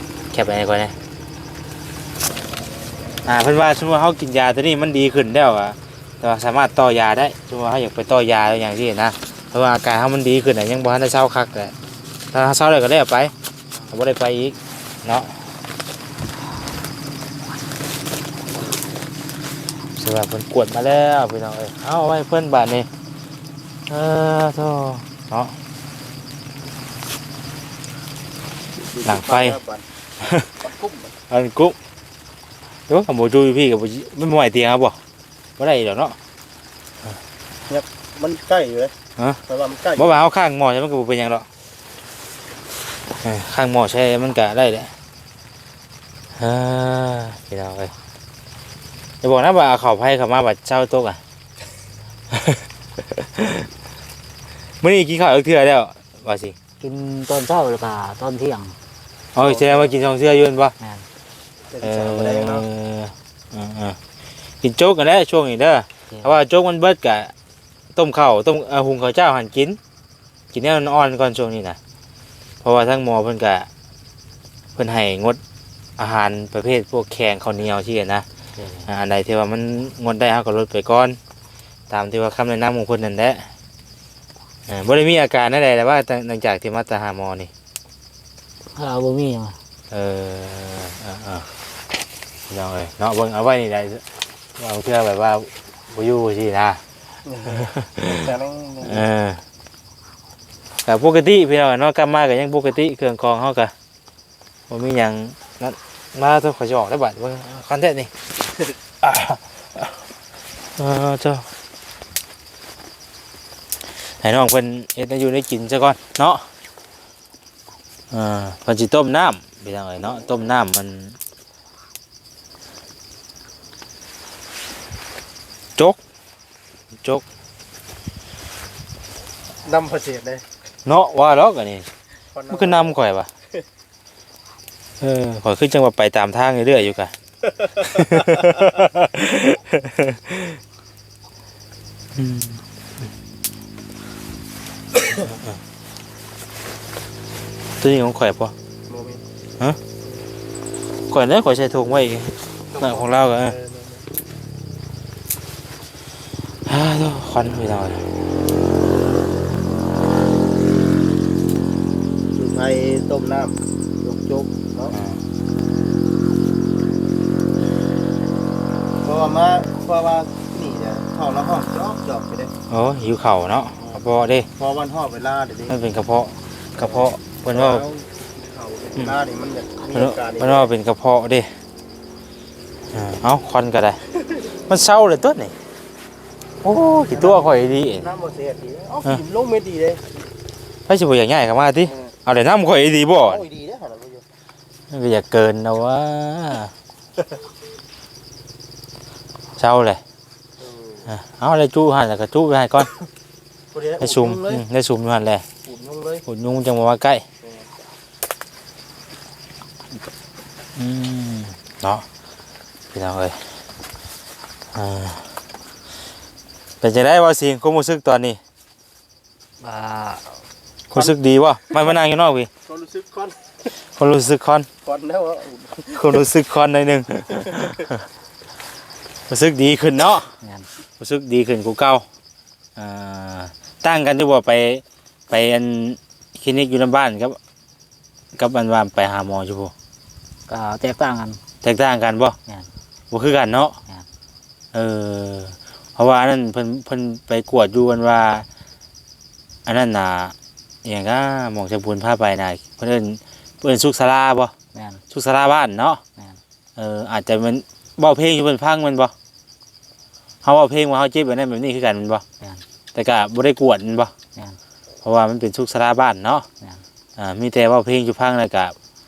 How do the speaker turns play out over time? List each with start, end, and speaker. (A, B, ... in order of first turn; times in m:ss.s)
0:00.3-0:01.0 A
0:03.2-0:11.7 A
0:12.3-0:13.3 A
0:13.9-0:15.3 A
0:20.0-0:22.9 A
0:23.9-0:25.5 A
0:28.7-0:29.8 B
0:29.0-0:29.6 A
0:30.2-0:30.5 A
0:30.6-0:31.1 B
0:31.3-0:31.8 A
0:32.9-0:35.0 A
0:35.6-0:36.2 A
0:37.7-0:38.9 B
0:39.5-0:40.1 B
0:40.0-0:41.5 A
0:43.2-0:44.9 A
0:46.4-0:47.9 A
0:49.2-0:51.2 A
0:52.3-0:53.7 A
0:54.8-0:56.6 A
0:56.8-0:58.8 C
0:59.3-1:00.7 A
0:59.4-0:59.9 B
1:00.8-1:01.0 C
1:01.7-1:02.7 B
1:01.8-1:04.0 A
1:04.6-1:07.3 A
1:07.9-1:09.8 A
1:10.5-1:11.8 A
1:12.6-1:13.7 A
1:14.8-1:15.4 A
1:16.0-1:18.2 A
1:18.6-1:18.9 C
1:18.8-1:21.2 A
1:21.9-1:23.5 A
1:24.7-1:27.5 A
1:28.7-1:29.6 C
1:29.9-1:31.5 A
1:32.5-1:34.0 A
1:34.6-1:36.8 A
1:37.2-1:39.1 B
1:37.6-1:38.2 A
1:38.8-1:39.4 A
1:40.8-1:43.7 A
1:44.7-1:48.1 A
1:49.0-1:49.4 A
1:50.8-1:51.5 A
1:54.2-1:56.4 A
1:58.1-2:01.2 A
2:09.6-2:10.4 B
2:10.8-2:11.9 A
2:12.3-2:13.0 B
2:12.5-2:13.3 A
2:15.0-2:17.1 A
2:17.8-2:20.6 A
2:18.1-2:18.4 B
2:22.1-2:22.6 A
2:27.8-2:28.5 A
2:28.9-2:29.2 B
2:31.1-2:33.6 A
2:32.7-2:34.1 B
2:36.6-2:38.0 A
2:42.3-2:44.9 B
2:44.9-2:45.2 A
2:49.0-2:52.5 B
2:52.7-2:54.5 A
2:54.6-2:55.8 B
2:55.7-2:57.8 A
2:56.8-3:00.7 B
2:59.9-3:01.5 A
3:02.9-3:04.0 A
3:04.7-3:05.5 A
3:06.6-3:08.1 A
3:07.1-3:10.1 B
3:10.9-3:13.4 A
3:13.2-3:14.2 B
3:14.9-3:16.7 A
3:19.6-3:20.0 A
3:20.6-3:21.1 B
3:21.1-3:22.9 A
3:23.7-3:24.6 B
3:24.0-3:25.4 A
3:25.6-3:26.2 B
3:26.2-3:27.2 A
3:27.4-3:27.7 B
3:30.8-3:32.0 A
3:32.9-3:33.4 A
3:34.7-3:35.3 A
3:36.8-3:38.4 A
3:39.6-3:40.3 C
3:40.9-3:42.5 A
3:42.6-3:43.4 B
3:43.7-3:44.7 A
3:44.8-3:46.2 B
3:45.9-3:48.0 A
3:47.4-3:47.8 B
3:49.3-3:50.3 A
3:50.4-3:50.7 C
3:51.0-3:52.0 A
3:52.8-3:57.4 A
3:58.4-3:59.7 A
4:00.5-4:01.4 C
4:01.6-4:02.4 A
4:03.1-4:03.8 A
4:04.7-4:08.4 A
4:09.6-4:14.5 A
4:14.7-4:15.0 C
4:15.1-4:16.0 A
4:16.8-4:19.1 A
4:20.4-4:22.2 A
4:22.9-4:24.1 A
4:25.0-4:26.4 A
4:27.2-4:28.7 A